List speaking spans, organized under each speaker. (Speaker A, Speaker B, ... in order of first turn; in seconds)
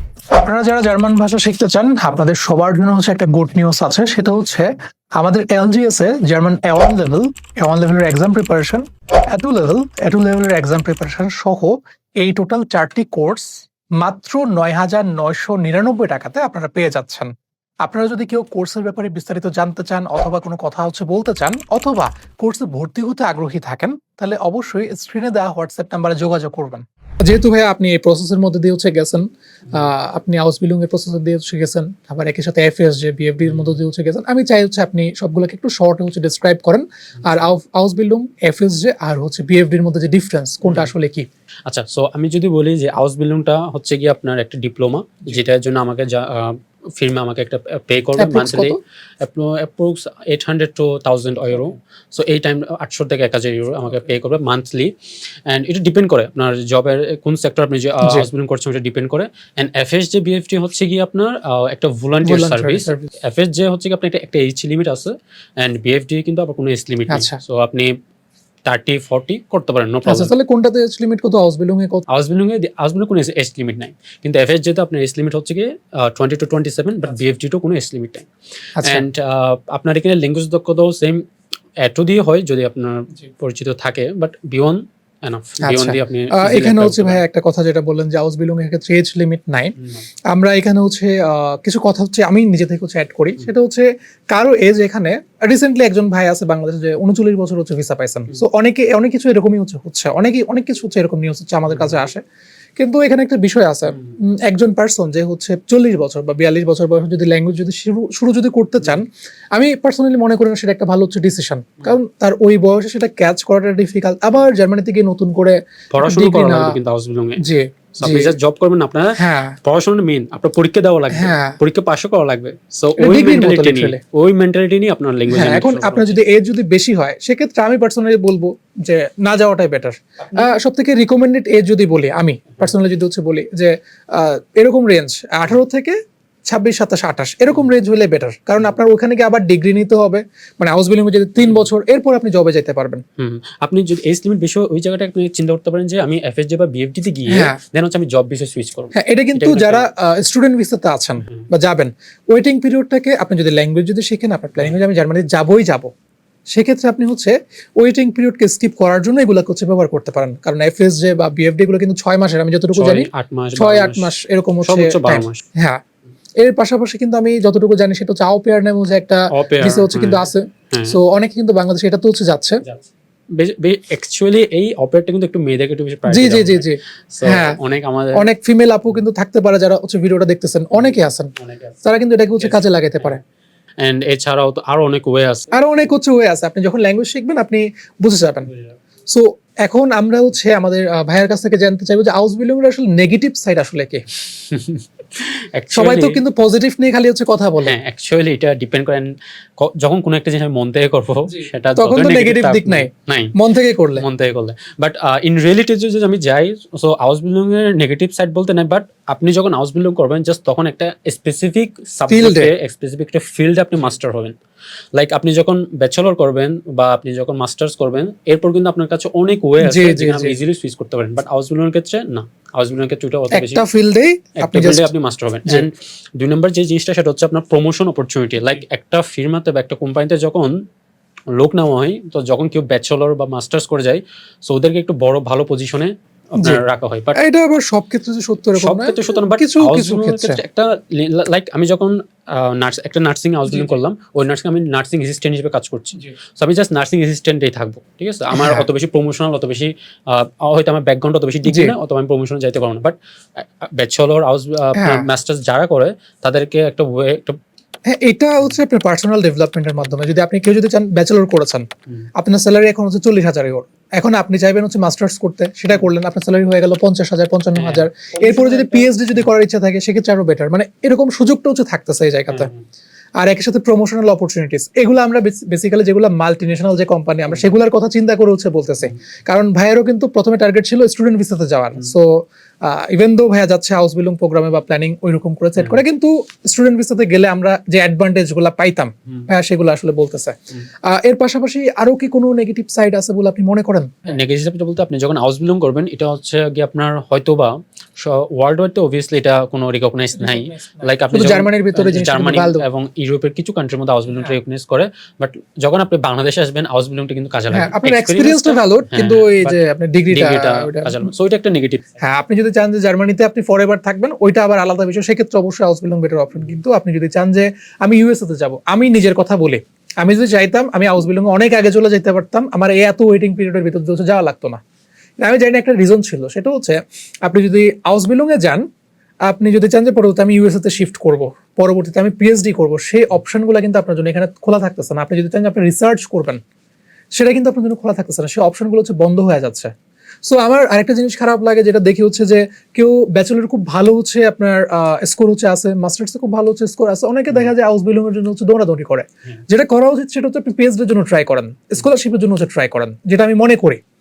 Speaker A: 0.3-41.3, 48.2-48.8, 62.2-63.1, 67.1-67.4, 70.0-72.0, 78.8-79.0, 85.6-89.8, 90.3-102.2, 102.8-116.8, 117.4-118.3, 119.2-119.6, 121.1-121.6, 123.0-124.0, 125.3-143.0, 147.3-147.6, 148.9-155.9, 156.5-165.8, 166.4-172.6, 176.1-177.6, 178.1-181.3, 181.8-183.2, 185.5-188.5, 189.1-194.1, 195.7-197.7, 201.3-204.0, 212.1-212.5, 219.6-220.3, 223.3-224.9, 237.1-240.4, 248.3-248.7, 251.4-251.7, 254.7-255.1, 257.9-272.5, 273.2-294.1, 300.2-302.6, 307.5-311.1, 312.0-324.6, 325.2-328.6, 329.3-336.4, 337.1-339.7, 340.2-353.8
Speaker B: 41.6-54.9, 55.5-68.0, 68.7-70.3, 72.1-81.2, 81.8-87.2, 115.9-117.4, 117.9-126.2, 143.2-149.9, 162.7-165.4, 169.3-171.0, 172.6-178.3, 181.4-181.7, 182.4-183.2, 183.8-185.5, 194.4-196.2, 197.6-203.3, 203.9-214.4, 214.9-223.7, 224.4-230.6, 231.3-237.2, 238.6-257.4, 267.5-268.6, 272.3-272.6, 294.1-312.0